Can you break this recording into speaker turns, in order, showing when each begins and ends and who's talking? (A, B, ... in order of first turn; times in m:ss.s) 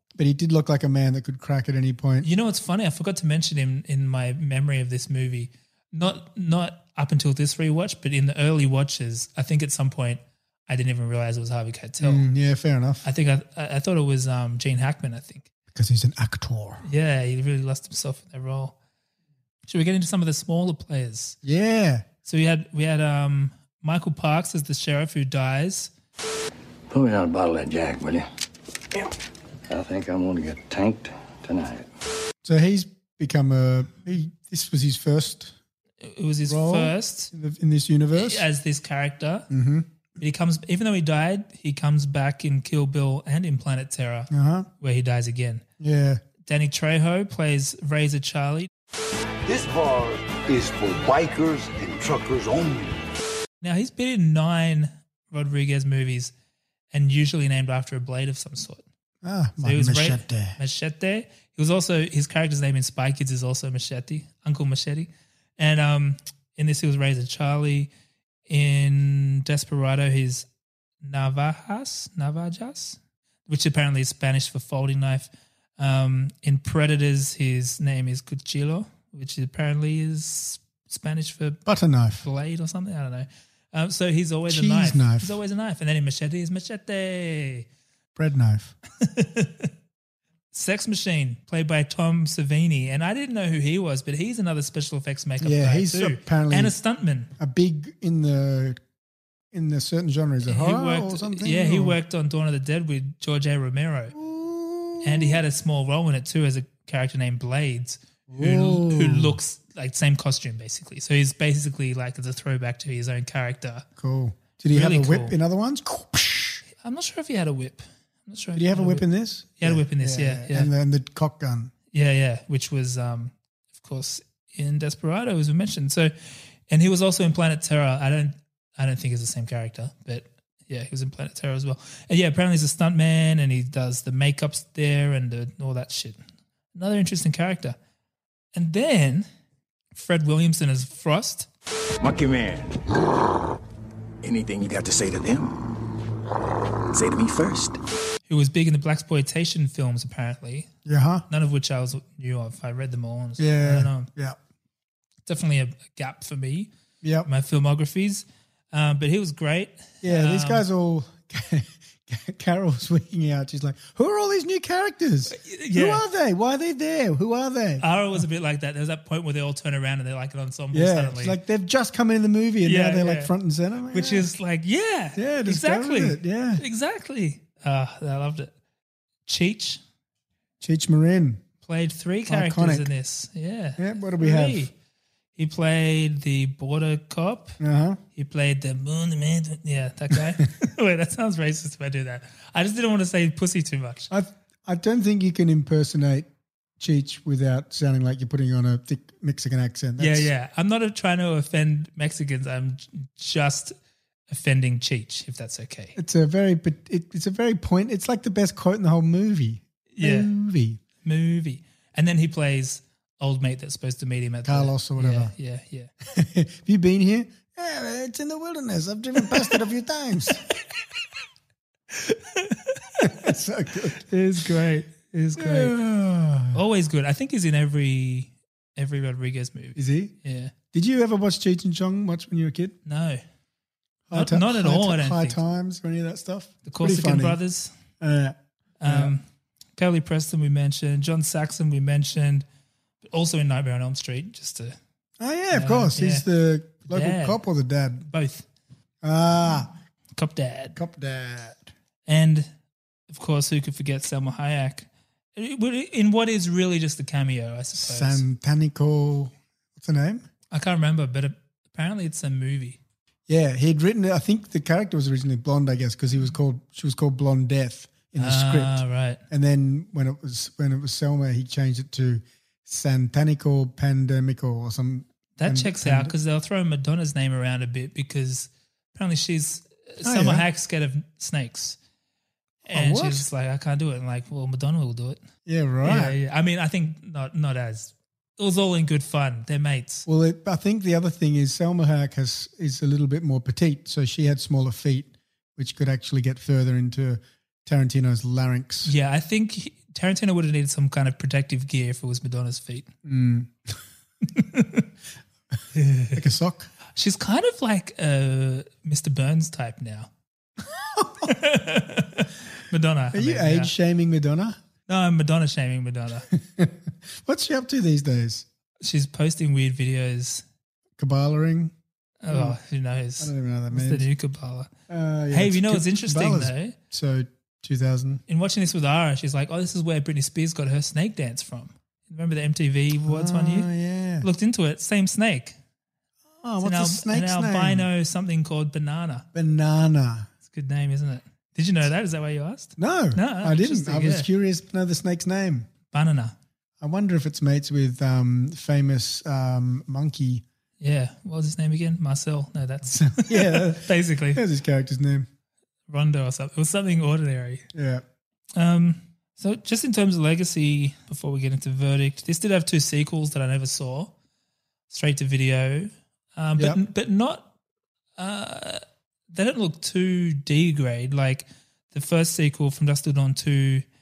0:00.2-0:02.3 A
0:02.2-0:12.2 B
0:12.0-0:13.0 A
0:13.0-0:15.4 B
0:15.7-0:16.8 A
0:16.8-0:18.7 B
0:19.7-0:21.4 B
0:21.4-0:22.0 A
0:22.2-0:25.9 B
0:26.9-0:28.2 C
0:29.7-0:31.9 C
0:32.4-0:35.5 A
0:36.0-0:37.3 B
0:36.4-0:38.4 A
0:38.1-0:39.5 B
0:39.5-0:39.9 A
0:40.2-0:45.6 B
0:44.3-0:44.7 A
0:45.8-0:46.2 A
0:46.4-0:48.7 B
0:49.5-0:52.9 D
0:53.6-0:56.3 B
0:56.9-0:58.8 B
0:59.2-1:00.6 A
0:59.6-1:07.9 B
1:08.5-1:10.4 B
1:11.0-1:21.6 B
1:21.6-1:22.2 A
1:22.2-1:27.7 B
1:24.5-1:25.4 A
1:28.2-1:28.7 A
1:29.0-1:29.7 B
1:30.5-1:37.3 B
1:35.4-1:36.7 A
1:37.4-1:38.8 A
1:39.5-1:42.0 A
1:40.4-1:44.2 B
1:44.1-1:45.4 A
1:45.0-1:53.8 B
1:48.3-1:49.4 A
1:54.0-1:56.6 A
1:54.7-1:55.3 B
1:56.8-1:59.0 B
1:58.5-2:01.7 A
1:59.6-2:00.7 B
2:01.9-2:06.1 B
2:06.7-2:16.2 B
2:16.7-2:17.8 B
2:18.5-2:19.3 B
2:19.9-2:21.5 B
2:22.0-2:22.7 E
2:24.2-2:25.4 E
2:27.0-2:27.8 E
2:28.3-2:30.7 B
2:30.8-2:31.2 A
2:31.3-2:34.1 B
2:33.4-2:34.4 A
2:35.3-2:36.7 B
2:37.0-2:37.3 A
2:37.2-2:40.6 B
2:40.0-2:48.2 A
2:45.3-2:46.0 B
2:47.8-2:51.4 B
2:50.7-2:54.3 A
2:52.6-2:53.3 B
2:53.9-2:58.5 B
2:55.2-2:56.6 A
2:59.3-2:59.8 B
3:00.6-3:01.4 A
3:01.6-3:04.7 B
3:02.3-3:02.9 A
3:03.8-3:04.7 A
3:05.4-3:07.6 B
3:07.6-3:08.0 A
3:08.2-3:14.1 B
3:14.1-3:20.3 A
3:20.0-3:23.7 B
3:24.3-3:25.9 B
3:26.0-3:30.8 A
3:29.9-3:30.3 B
3:31.0-3:35.9 B
3:34.4-3:35.3 A
3:36.0-3:40.4 A
3:41.9-3:43.1 B
3:43.0-3:44.1 A
3:44.0-3:45.8 B
3:45.4-3:46.6 A
3:46.5-3:50.5 B
3:49.8-3:50.1 A
3:50.7-3:52.8 A
3:52.8-3:53.2 B
3:54.1-3:57.4 A
3:54.1-3:55.4 B
3:56.6-3:57.7 B
3:58.0-3:59.1 A
3:58.8-3:59.2 B
3:59.8-4:02.4 B
4:03.0-4:04.8 B
4:05.2-4:08.0 A
4:05.5-4:06.2 B
4:06.9-4:07.4 B
4:08.0-4:08.4 B
4:09.0-4:09.7 A
4:10.2-4:10.8 B
4:10.7-4:11.7 A
4:12.1-4:12.5 B
4:13.1-4:18.2 B
4:17.7-4:20.2 A
4:20.5-4:22.8 B
4:23.3-4:36.1 A
4:28.2-4:29.2 B
4:35.4-4:41.8 B
4:40.0-4:40.4 A
4:42.7-4:45.2 B
4:42.7-4:43.3 A
4:45.4-4:46.2 A
4:45.8-4:50.0 B
4:50.1-4:58.9 A
4:58.8-5:02.9 B
5:03.0-5:03.8 A
5:04.3-5:04.9 B
5:05.7-5:06.2 B
5:06.1-5:06.7 A
5:07.0-5:10.1 B
5:10.9-5:11.3 A
5:11.2-5:13.7 B
5:13.1-5:14.6 A
5:14.9-5:16.3 B
5:16.3-5:18.4 A
5:18.8-5:20.4 B
5:21.0-5:21.7 A
5:22.2-5:24.7 B
5:22.3-5:22.6 A
5:23.2-5:24.1 A
5:24.9-5:28.2 A
5:25.3-5:26.7 B
5:28.3-5:33.7 B
5:33.0-5:34.3 A
5:34.2-5:35.5 B
5:36.4-5:37.9 A
5:36.6-5:39.2 B
5:39.3-5:40.3 A
5:40.5-5:44.3 B
5:42.8-5:45.7 A
5:45.9-5:46.3 B
5:46.8-5:50.4 A
5:50.8-5:54.4 B
5:52.8-5:55.3 A
5:55.9-5:57.6 B
5:57.7-5:58.0 A
5:58.6-6:04.1 B
6:04.9-6:07.5 B
6:08.2-6:13.8 B